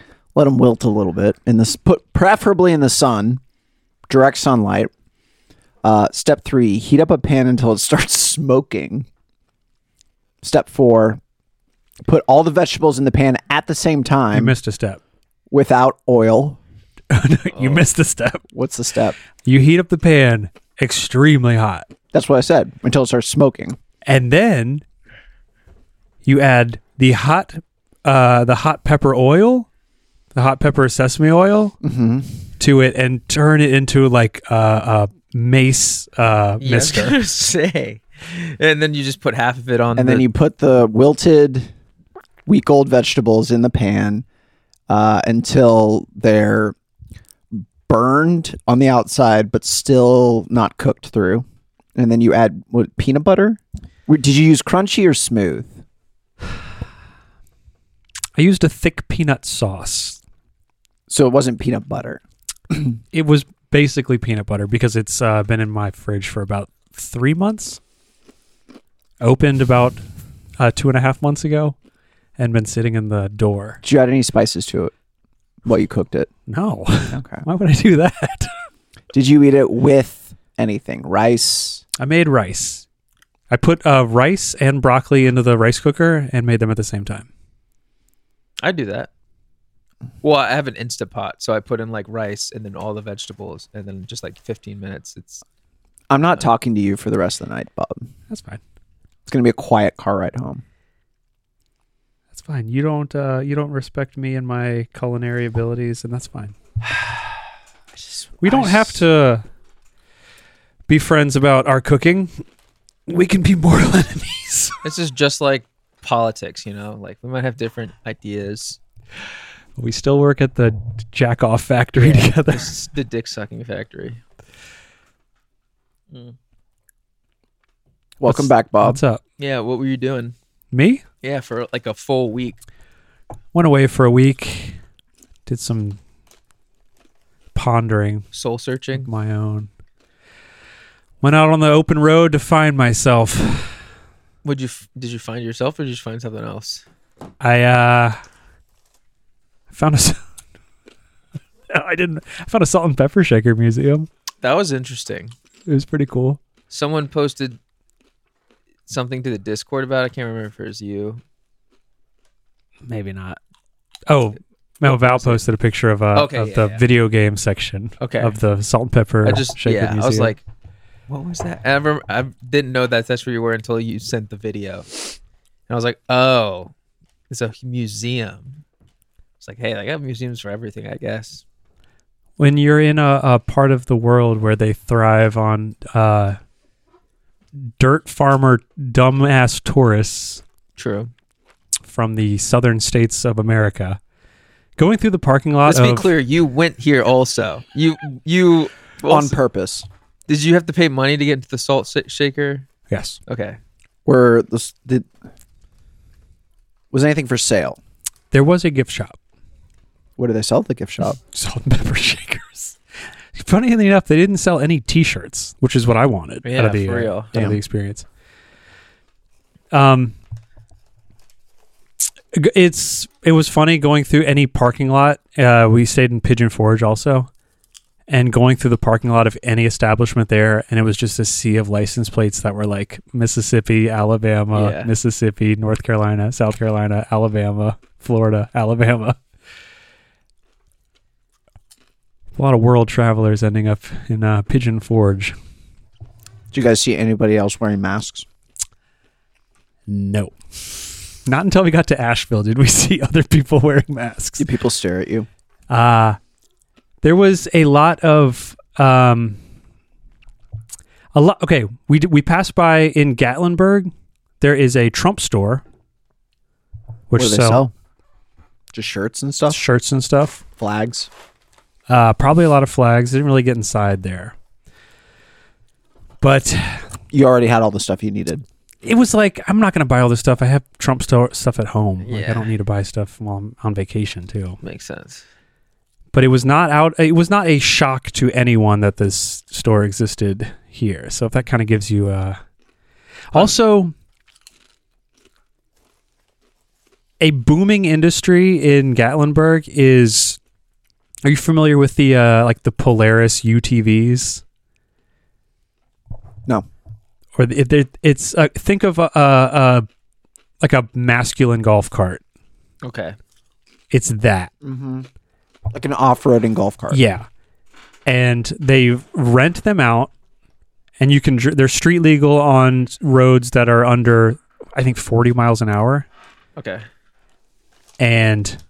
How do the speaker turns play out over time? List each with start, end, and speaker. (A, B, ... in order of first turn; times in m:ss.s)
0:00.4-0:03.4 A
0:04.1-0:04.9 A
0:05.8-0:09.1 A
0:10.4-0:11.2 A
0:12.0-0:14.6 A
0:14.3-0:15.0 B
0:15.5-0:16.6 A
0:17.1-0:18.4 B
0:17.5-0:17.9 C
0:18.5-0:19.2 A
0:19.4-0:21.9 B
0:22.1-0:23.8 A
0:24.0-0:24.8 B
0:26.2-0:29.7 B
0:30.3-0:31.8 B
0:31.8-0:32.4 A
0:32.6-0:37.2 B
0:36.6-0:40.3 C
0:40.0-0:41.7 A
0:42.5-0:44.2 A
0:44.9-0:46.8 A
0:47.5-0:55.8 A
0:58.4-1:00.2 B
1:01.1-1:02.9 A
1:03.1-1:07.8 B
1:09.2-1:10.0 B
1:10.6-1:11.8 B
1:12.4-1:13.8 B
1:13.8-1:14.9 A
1:15.6-1:16.3 A
1:16.5-1:18.5 B
1:17.1-1:17.4 A
1:19.1-1:21.8 A
1:22.0-1:22.8 B
1:23.5-1:27.3 B
1:28.6-1:29.1 C
1:30.2-1:35.4 C
1:36.1-1:38.1 A
1:38.3-1:38.6 B
1:39.3-1:40.6 A
1:42.3-1:46.6 B
1:48.0-1:49.0 A
1:48.4-1:49.4 B
1:50.9-1:52.3 B
1:53.1-1:54.8 B
1:54.8-1:58.8 C
1:59.8-2:02.8 B
2:02.0-2:04.2 C
2:06.1-2:06.4 C
2:08.2-2:09.0 A
2:08.2-2:09.2 B
2:09.4-2:10.4 C
2:10.7-2:11.0 B
2:11.2-2:12.6 C
2:13.5-2:14.8 B
2:15.5-2:16.0 B
2:17.6-2:18.3 B
2:18.3-2:19.1 C
2:19.0-2:19.7 B
2:21.2-2:23.8 B
2:24.4-2:26.8 C
2:27.4-2:28.2 B
2:29.7-2:30.2 B
2:31.7-2:34.1 B
2:34.4-2:35.4 C
2:35.7-2:36.4 B
2:36.7-2:37.6 C
2:38.9-2:41.2 C
2:42.9-2:43.4 B
2:44.1-2:50.4 B
2:44.8-2:45.4 C
2:46.1-2:46.8 C
2:48.0-2:48.4 C
2:49.2-2:50.4 C
2:51.1-2:55.2 C
2:55.7-2:56.7 C
2:57.3-2:58.6 C
2:59.4-3:01.4 C
3:02.4-3:06.4 B
3:07.8-3:10.4 B
3:10.8-3:11.1 C
3:11.9-3:14.0 B
3:14.8-3:16.1 B
3:15.6-3:19.4 C
3:19.1-3:19.9 A
3:20.3-3:22.7 C
3:22.9-3:23.2 B
3:23.3-3:23.6 C
3:24.1-3:25.1 A
3:26.9-3:27.8 A
3:28.3-3:29.2 B
3:30.2-3:31.2 A
3:31.2-3:32.8 B
3:33.4-3:38.0 B
3:36.4-3:37.3 C
3:37.3-3:37.6 A
3:39.7-3:40.2 B
3:42.3-3:47.3 B
3:48.1-3:59.2 B
3:54.5-3:54.9 C
4:02.4-4:05.4 B
4:06.5-4:08.3 A
4:09.9-4:14.5 B
4:14.4-4:15.3 A
4:15.7-4:16.2 B
4:17.0-4:19.4 B
4:21.1-4:25.6 B
4:27.1-4:27.6 B
4:27.1-4:27.7 A
4:28.7-4:29.6 A
4:29.5-4:30.4 B
4:30.6-4:31.1 A
4:31.9-4:34.3 B
4:36.2-4:36.9 B
4:37.1-4:38.4 A
4:38.8-4:44.6 B
4:42.0-4:42.5 C
4:44.6-4:45.2 C
4:46.1-4:52.4 B
4:53.3-4:53.9 B
4:57.2-5:00.4 B
5:01.2-5:04.4 B
5:07.4-5:09.9 B
5:10.6-5:12.2 B
5:12.8-5:13.2 C
5:13.9-5:14.5 B
5:14.6-5:15.1 A
5:15.7-5:17.0 A
5:16.9-5:17.3 B
5:18.1-5:20.1 B
5:21.0-5:26.1 B
5:26.6-5:26.8 C
5:28.0-5:28.6 B